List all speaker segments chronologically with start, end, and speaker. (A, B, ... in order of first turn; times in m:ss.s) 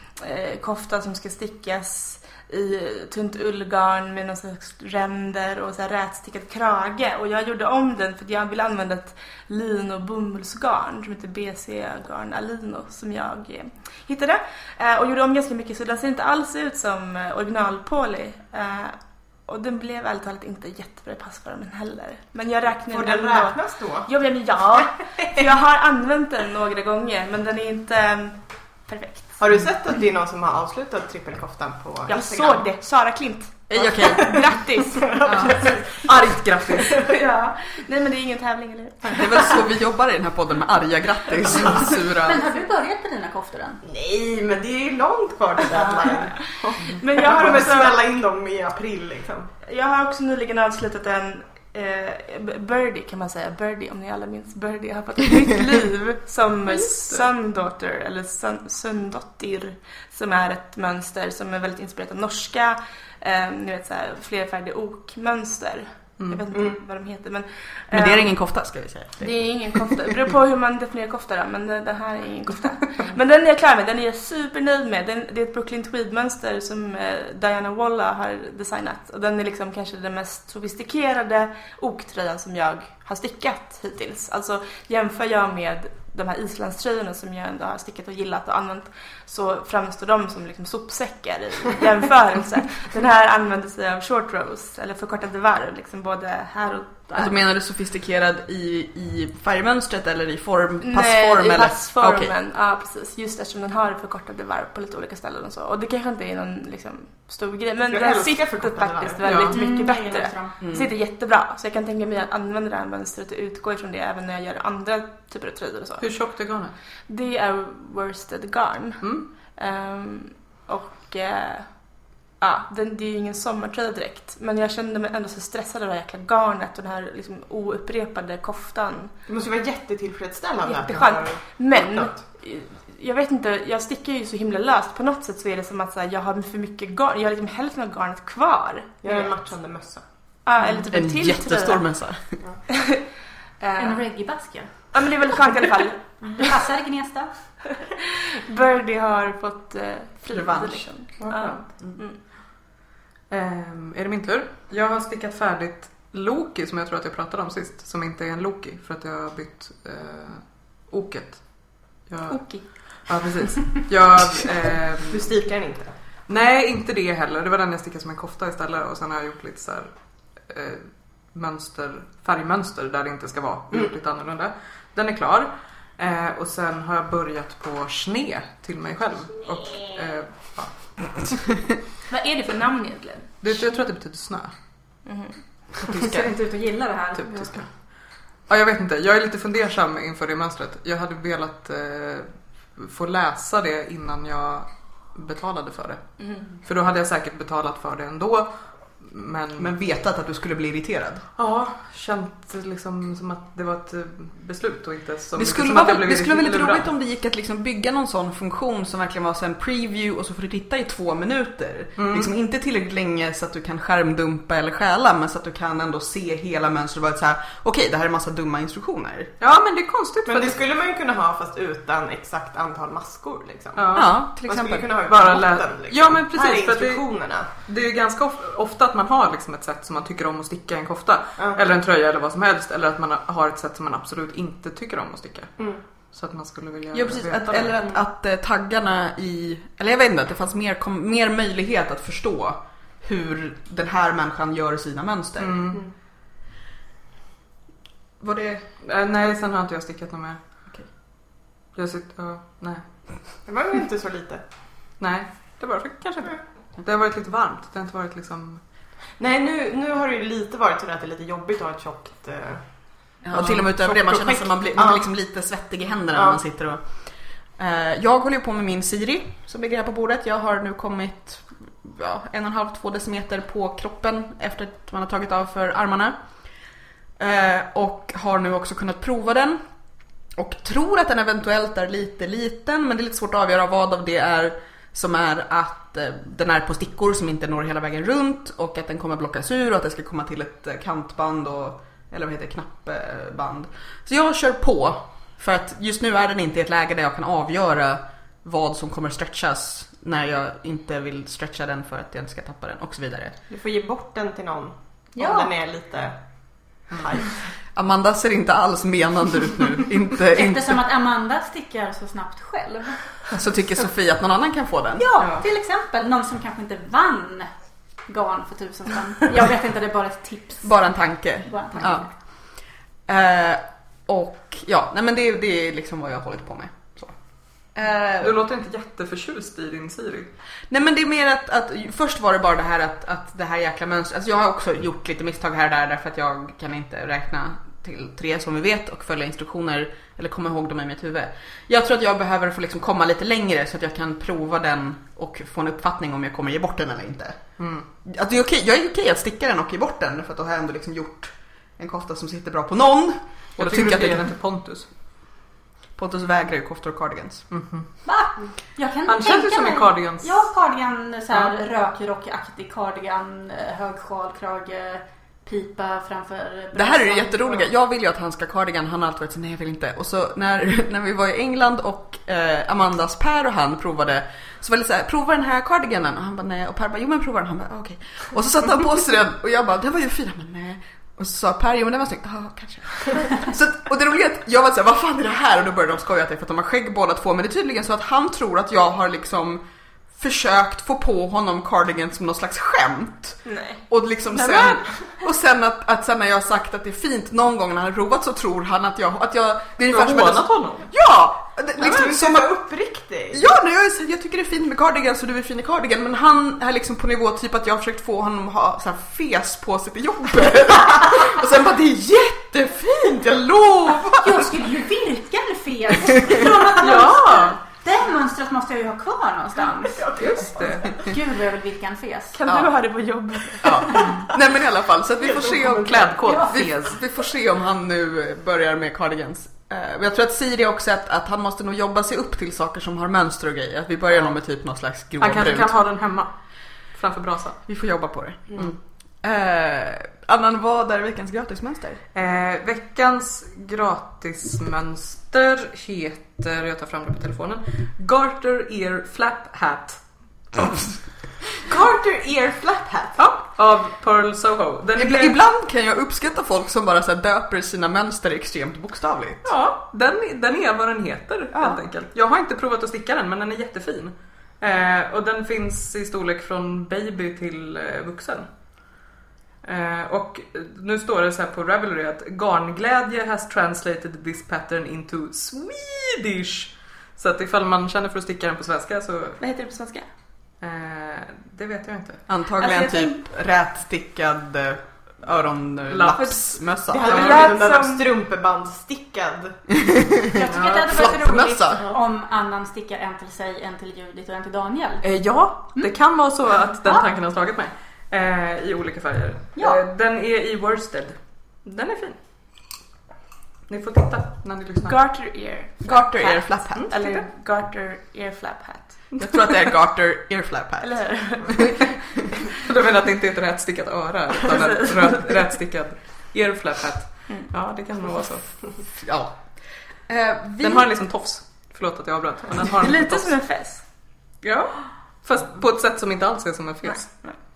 0:00.2-0:29.4 A
0:22.9-0:24.1 B
0:25.2-0:25.5 B
0:29.4-0:32.6 B
0:32.1-0:35.2 A
0:33.7-0:34.5 C
0:33.8-0:34.4 B
0:35.0-0:37.1 B
0:35.2-0:35.6 C
0:35.6-0:37.0 D
0:37.0-0:39.6 A
0:39.1-0:42.4 C
0:42.1-0:43.8 E
0:43.8-0:49.5 B
0:45.7-0:46.3 E
0:46.4-0:48.0 A
0:49.6-1:08.3 A
0:56.7-0:57.3 D
1:06.5-1:06.8 B
1:07.9-1:10.0 C
1:09.2-1:37.3 A
1:37.2-1:42.3 C
1:40.8-1:56.2 A
1:47.9-1:49.2 B
1:49.2-1:49.6 D
1:49.5-1:50.6 E
1:50.6-1:50.9 C
1:56.0-1:56.8 D
1:57.1-2:09.2 A
1:59.0-1:59.3 D
2:09.3-2:12.3 B
2:10.6-2:19.4 A
2:19.0-2:20.0 B
2:20.4-2:21.8 A
2:20.9-2:22.4 C
2:22.7-2:23.0 A
2:23.6-2:24.0 A
2:23.8-2:25.1 E
2:24.9-2:26.4 A
2:26.4-2:27.3 E
2:28.0-2:32.2 A
2:30.3-2:30.9 C
2:31.2-2:31.6 D
2:33.3-2:45.3 D
2:42.3-2:42.6 E
2:45.1-2:46.0 B
2:46.3-3:01.4 D
3:02.1-3:03.6 A
3:03.4-3:04.5 D
3:05.0-3:05.4 A
3:05.9-3:07.5 E
3:07.2-3:07.7 D
3:08.5-3:19.7 D
3:16.2-3:16.5 A
3:19.6-3:21.2 C
3:21.4-3:26.8 D
3:25.4-3:39.3 C
3:32.0-3:32.3 D
3:39.4-3:40.6 D
3:40.3-3:47.5 B
3:43.8-3:44.4 D
3:43.9-3:44.9 C
3:45.1-3:58.0 D
3:56.9-4:05.8 C
4:05.4-4:05.8 D
4:08.2-4:08.7 C
4:08.8-4:10.4 D
4:11.5-4:12.8 D
4:13.4-4:14.4 B
4:15.0-4:18.6 D
4:19.2-4:25.0 B
4:23.2-4:26.8 C
4:23.3-4:24.1 D
4:27.6-4:36.2 C
4:37.2-4:39.6 C
4:40.4-5:03.4 C
5:03.5-5:06.2 B
5:05.1-5:05.5 E
5:06.7-5:07.5 B
5:07.7-5:10.8 C
5:10.3-5:13.1 E
5:13.4-5:15.1 C
5:15.0-5:17.5 E
5:18.0-5:20.8 E
5:20.6-5:22.2 C
5:21.4-5:22.1 E
5:23.1-5:27.1 C
5:27.7-5:28.4 C
5:28.2-5:30.3 D
5:30.7-5:54.3 C
5:47.6-5:47.8 D
5:53.6-5:54.9 D
5:56.0-5:57.5 C
5:57.5-5:57.9 D
5:58.0-6:07.7 E
5:59.1-6:00.4 D
6:06.7-6:42.5 C
6:33.4-6:33.8 A
6:34.5-6:35.2 A
6:39.9-6:40.9 D
6:41.8-6:43.4 B
6:43.3-6:54.5 C
6:54.2-7:02.4 E
6:56.8-6:57.6 D
6:59.9-7:00.9 B
7:00.2-7:01.0 D
7:02.3-7:04.1 A
7:03.6-7:15.8 C
7:03.9-7:04.1 E
7:05.2-7:06.1 B
7:05.4-7:07.0 D
7:06.2-7:06.6 E
7:15.2-7:16.3 D
7:16.9-7:17.6 D
7:17.7-7:22.0 C
7:22.1-7:30.0 D
7:30.5-7:30.8 D
7:31.6-7:33.2 B
7:33.2-7:35.4 D
7:35.0-7:39.5 C
7:39.4-7:48.5 D
7:41.5-7:41.8 C
7:49.6-7:59.4 D
7:59.4-8:00.1 A
8:00.6-8:02.3 D
8:02.3-8:07.2 C
8:02.6-8:03.2 A
8:05.9-8:07.5 D
8:06.9-8:09.6 B
8:07.0-8:08.1 A
8:09.7-8:11.9 C
8:10.3-8:15.1 E
8:10.5-8:10.9 D
8:15.0-8:22.2 D
8:23.7-8:25.0 D
8:24.8-8:29.1 A
8:25.8-8:26.9 C
8:26.7-8:27.2 D
8:29.2-8:31.0 C
8:30.8-8:31.6 A
8:32.5-8:38.5 D
8:39.0-8:40.9 C
8:40.6-8:43.4 D
8:42.7-8:43.8 A
8:44.4-8:47.1 D
8:46.9-8:47.4 A